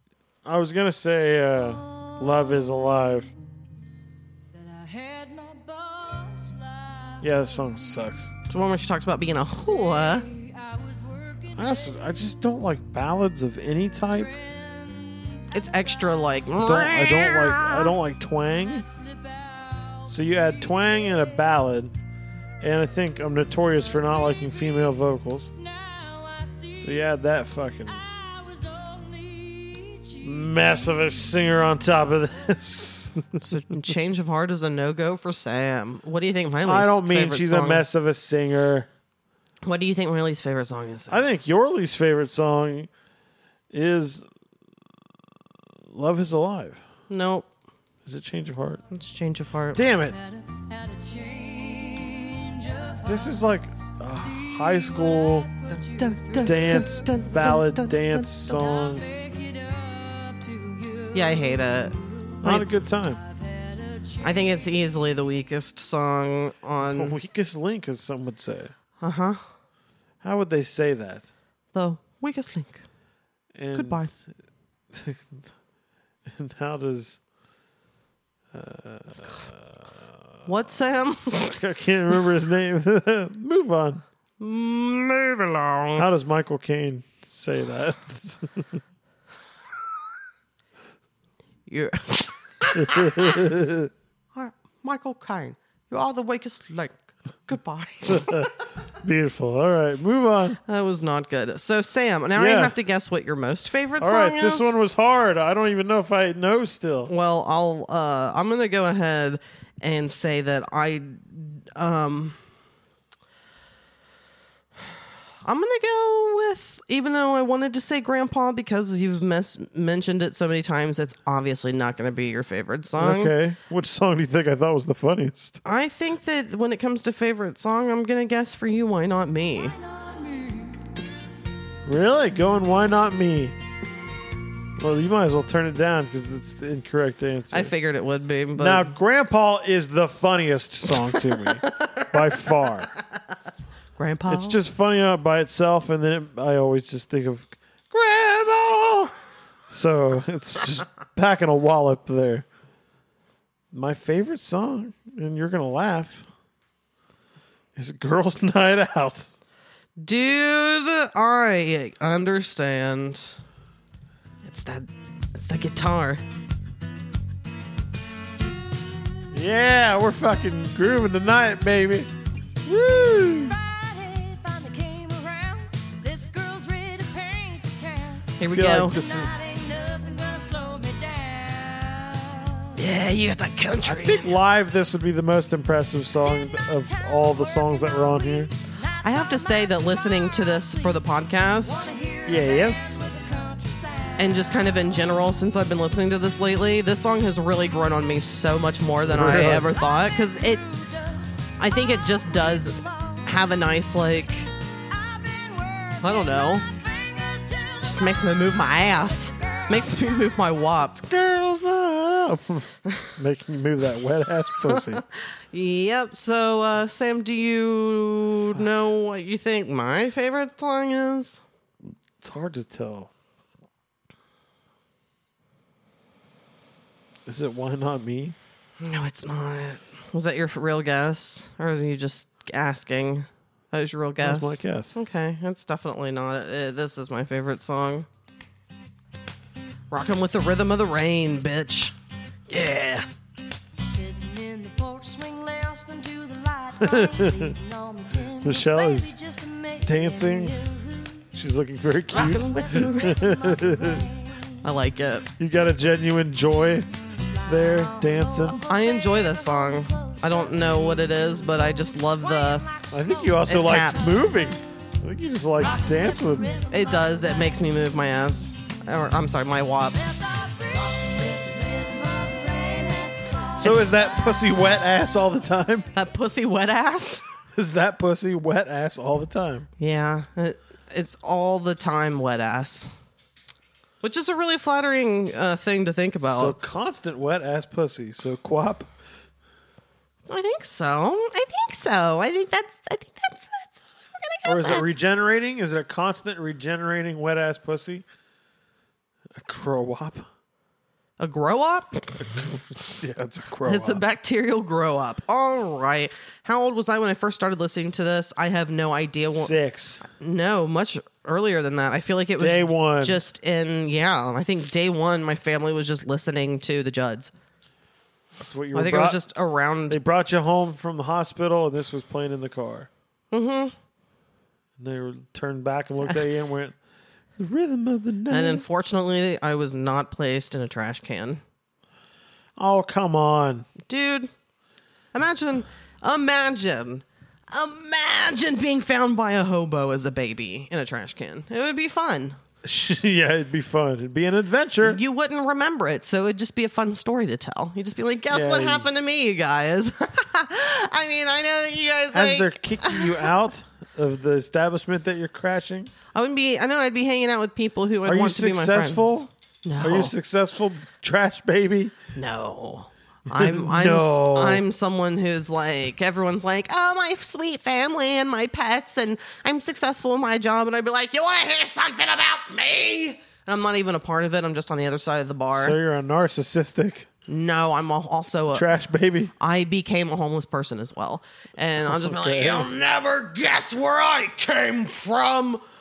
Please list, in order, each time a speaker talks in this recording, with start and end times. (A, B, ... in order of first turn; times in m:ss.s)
0:00.4-0:03.3 A
0:04.6-0:07.2 B
0:07.2-0:08.3 A
0:08.5-0:10.3 C
0:10.3-0:11.5 B
0:11.6-0:14.3 A
0:14.9-0:15.3 B
0:15.5-0:17.9 C
0:16.6-0:18.9 A
0:20.1-0:21.9 A
0:22.6-0:25.5 A
0:26.2-0:26.7 B
0:26.7-0:28.1 A
0:28.7-0:30.2 B
0:30.2-0:33.5 A
0:33.4-0:37.8 C
0:36.6-0:38.9 A
0:39.6-0:41.3 C
0:41.1-0:42.9 A
0:43.7-0:44.3 A
0:45.9-0:46.8 A
0:47.1-0:47.5 C
0:48.0-0:48.8 A
0:48.9-0:49.8 C
0:49.7-0:50.2 A
0:50.5-0:53.0 B
0:53.0-0:55.5 A
0:55.7-0:58.6 C
0:55.8-0:56.1 B
0:56.4-0:59.1 A
0:59.0-1:01.4 B
1:01.1-1:02.8 C
1:02.4-1:03.2 A
1:03.5-1:04.3 B
1:04.2-1:07.2 C
1:06.8-1:08.7 A
1:09.0-1:09.4 C
1:10.2-1:11.3 A
1:11.7-1:12.8 C
1:13.5-1:14.3 A
1:13.7-1:14.1 C
1:14.9-1:15.4 A
1:16.3-1:17.2 A
1:18.5-1:20.0 A
1:20.4-1:21.6 C
1:21.3-1:24.0 A
1:24.4-1:26.1 C
1:26.0-1:28.8 A
1:31.7-1:33.3 C
1:32.7-1:33.9 A
1:34.4-1:38.5 C
1:38.1-1:40.6 A
1:40.6-1:44.7 C
1:42.4-1:42.7 A
1:44.0-1:47.1 A
1:47.1-1:52.4 C
1:55.4-2:03.3 C
2:03.0-2:05.6 A
2:05.6-2:09.8 C
2:09.9-2:10.7 B
2:11.8-2:13.6 A
2:14.8-2:17.7 A
2:17.5-2:18.9 C
2:18.6-2:22.9 A
2:21.6-2:22.4 C
2:24.0-2:24.6 C
2:24.3-2:29.2 A
2:29.7-2:32.4 A
2:33.7-2:36.3 A
2:37.8-2:39.3 A
2:40.0-2:43.4 C
2:44.4-2:46.2 C
2:49.3-2:52.1 A
2:52.6-2:53.6 A
2:53.0-2:58.4 B
2:58.4-2:59.0 C
2:58.4-2:59.3 A
2:58.9-3:02.8 B
3:02.7-3:04.4 C
3:03.8-3:08.5 A
3:09.0-3:11.0 B
3:09.0-3:11.9 C
3:11.6-3:14.5 B
3:12.3-3:13.1 A
3:14.2-3:20.6 C
3:19.1-3:19.7 A
3:19.8-3:21.2 B
3:21.6-3:24.5 C
3:22.8-3:23.2 B
3:24.9-3:28.4 B
3:26.0-3:26.7 C
3:27.8-3:31.0 C
3:29.3-3:30.3 B
3:31.0-3:35.0 A
3:34.7-3:41.4 C
3:42.2-3:43.1 A
3:47.3-3:48.4 A
3:48.8-3:58.1 C
3:54.2-3:55.0 A
3:59.9-4:01.9 C
4:02.5-4:03.1 C
4:03.8-4:11.3 B
4:06.8-4:07.6 A
4:08.4-4:09.2 A
4:09.8-4:10.7 A
4:11.3-4:14.1 A
4:12.1-4:13.2 C
4:12.3-4:14.6 B
4:14.6-4:15.3 C
4:15.4-4:16.9 A
4:17.4-4:23.7 B
4:17.4-4:18.6 A
4:18.7-4:22.7 C
4:22.9-4:26.6 A
4:23.4-4:24.2 C
4:25.7-4:27.6 B
4:26.7-4:30.1 C
4:30.0-4:34.0 B
4:33.6-4:35.9 A
4:35.9-4:37.3 C
4:37.5-4:39.7 A
4:39.8-4:42.9 C
4:44.0-4:46.6 C
4:46.2-4:48.9 A
4:50.3-4:54.9 C
4:54.4-4:58.0 A
4:59.4-5:00.3 A
5:01.2-5:02.4 C
5:02.2-5:04.0 A
5:03.6-5:17.3 C
5:09.3-5:10.0 A
5:12.4-5:13.2 A
5:18.4-5:19.2 A
5:18.7-5:20.0 C
5:19.9-5:22.9 A
5:23.3-5:23.7 C
5:24.8-5:26.8 A
5:27.4-5:28.6 A
5:28.3-5:31.4 C
5:32.6-5:33.7 A
5:33.8-5:34.3 C
5:35.1-5:42.4 C
5:42.6-5:45.0 A
5:44.8-5:53.2 C
5:48.3-5:48.9 A
5:52.1-5:55.9 A
5:56.2-6:00.1 C
5:58.0-5:59.3 A
5:59.8-6:01.9 A
6:02.1-6:15.8 C
6:03.3-6:04.6 A
6:15.5-6:17.1 A
6:17.3-6:18.6 C
6:18.5-6:19.3 A
6:19.4-6:25.6 C
6:21.9-6:22.7 A